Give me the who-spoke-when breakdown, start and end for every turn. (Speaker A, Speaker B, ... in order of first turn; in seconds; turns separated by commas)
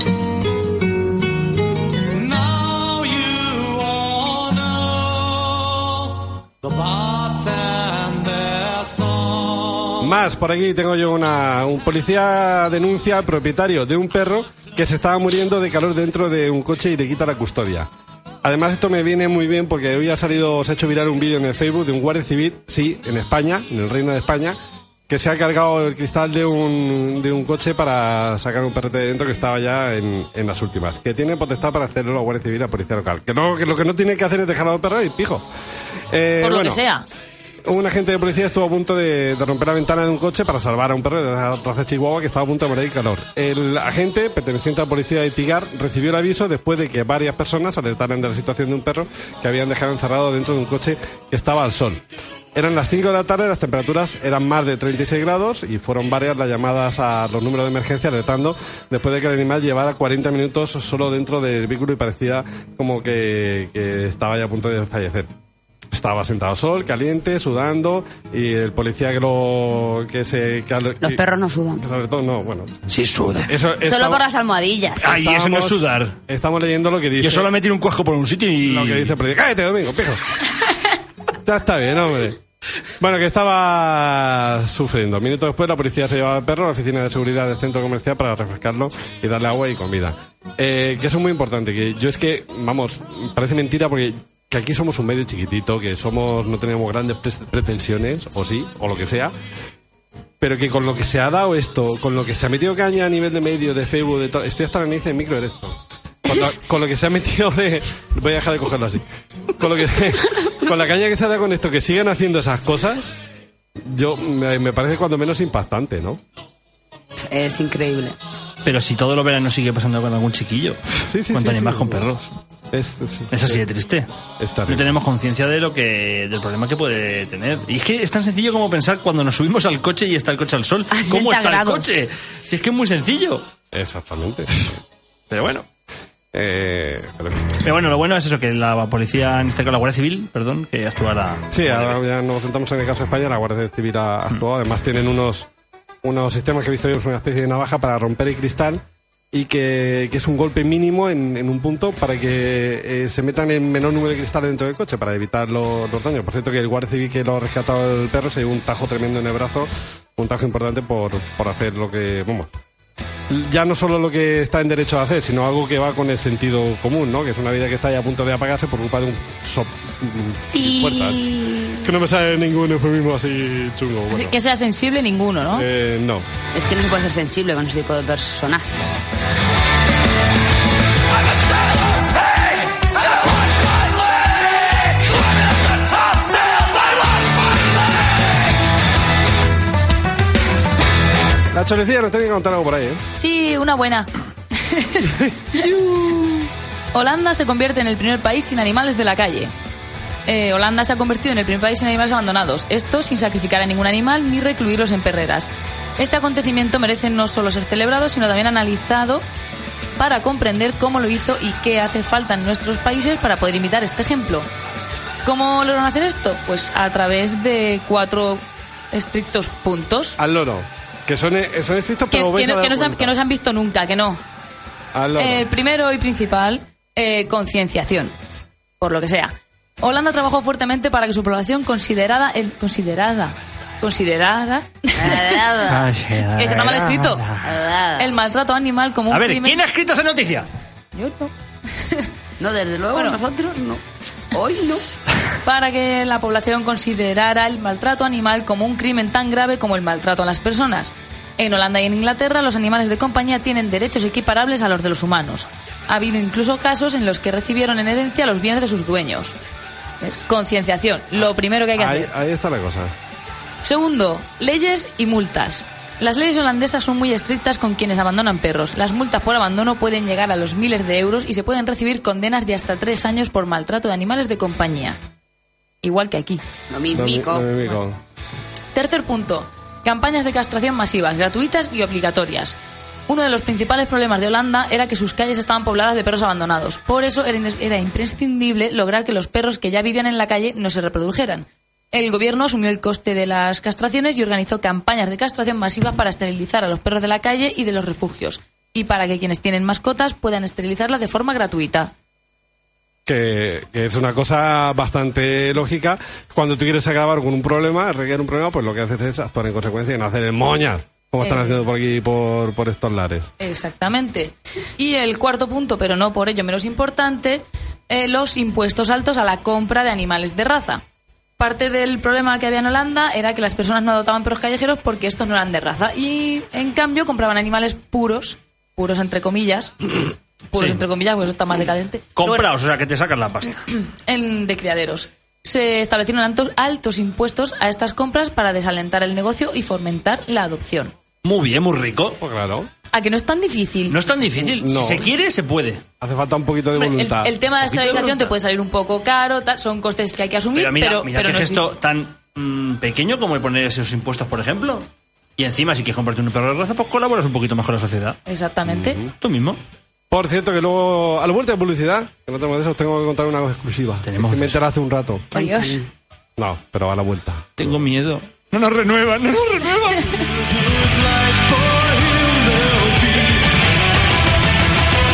Speaker A: 2.2-4.4, Speaker A: 6.7-8.6, Speaker B: 10.0-17.9, Speaker B: 18.4-24.6, Speaker B: 25.1-35.5, Speaker B: 36.1-36.8, Speaker C: 36.4-37.0, Speaker B: 37.7-52.0, Speaker B: 52.5-65.3, Speaker B: 65.9-71.2, Speaker D: 71.0-71.8, Speaker B: 71.8-72.8, Speaker E: 72.9-73.5, Speaker B: 73.5-74.2, Speaker D: 73.8-75.1, Speaker E: 75.0-76.2, Speaker B: 75.0-77.5, Speaker E: 77.2-79.2, Speaker B: 78.6-80.2, Speaker B: 81.4-82.4, Speaker B: 83.0-99.3, Speaker B: 100.4-109.0, Speaker B: 109.6-113.2, Speaker B: 113.8-116.2, Speaker D: 117.3-118.2, Speaker E: 118.7-120.8, Speaker B: 121.0-122.1, Speaker E: 121.3-122.3, Speaker B: 122.7-123.6, Speaker E: 123.3-124.1, Speaker B: 124.4-125.0, Speaker E: 124.7-133.5, Speaker D: 130.9-131.9, Speaker B: 133.7-134.8, Speaker E: 135.3-135.7, Speaker B: 136.3-137.6, Speaker E: 137.6-142.0, Speaker B: 141.5-145.5, Speaker B: 146.0-162.5, Speaker B: 163.3-174.4, Speaker D: 170.5-171.9, Speaker C: 174.1-175.7, Speaker B: 175.5-176.2, Speaker D: 176.5-178.9, Speaker B: 191.5-193.0, Speaker C: 193.2-194.1, Speaker C: 194.6-195.7, Speaker B: 195.6-196.3, Speaker C: 196.9-199.5, Speaker C: 200.3-209.2, Speaker C: 210.0-214.5, Speaker C: 215.2-220.2, Speaker B: 220.2-223.2, Speaker C: 222.1-224.2, Speaker B: 224.9-225.5, Speaker C: 225.2-228.1, Speaker C: 228.8-235.3, Speaker D: 235.0-235.9, Speaker E: 235.7-237.5, Speaker C: 236.4-237.2, Speaker D: 237.4-238.1, Speaker C: 238.0-239.6, Speaker E: 239.1-240.5, Speaker C: 240.9-241.3, Speaker D: 242.4-244.8, Speaker C: 242.9-243.2, Speaker C: 245.4-259.4, Speaker C: 260.0-262.1, Speaker B: 261.8-262.9, Speaker C: 263.6-275.0, Speaker C: 275.8-276.4, Speaker D: 276.7-277.5, Speaker B: 276.9-278.0, Speaker C: 278.7-282.6, Speaker C: 283.1-301.9, Speaker B: 303.1-313.3, Speaker C: 311.2-311.6, Speaker C: 313.4-320.8, Speaker C: 321.4-329.9, Speaker C: 330.5-332.5, Speaker E: 330.6-330.8, Speaker E: 332.2-333.7, Speaker C: 334.0-340.9, Speaker E: 341.2-342.2, Speaker B: 342.2-342.7, Speaker C: 342.9-344.0, Speaker E: 343.9-345.8, Speaker B: 344.4-345.1, Speaker B: 346.0-347.3, Speaker C: 346.8-351.6, Speaker E: 347.6-348.3, Speaker E: 350.6-358.2, Speaker C: 358.3-359.0, Speaker B: 358.7-359.1, Speaker E: 359.2-359.6, Speaker B: 360.1-365.3, Speaker E: 364.1-364.6, Speaker C: 365.3-365.8, Speaker D: 365.3-365.9, Speaker B: 366.4-367.7, Speaker E: 367.6-370.3, Speaker A: 370.6-373.4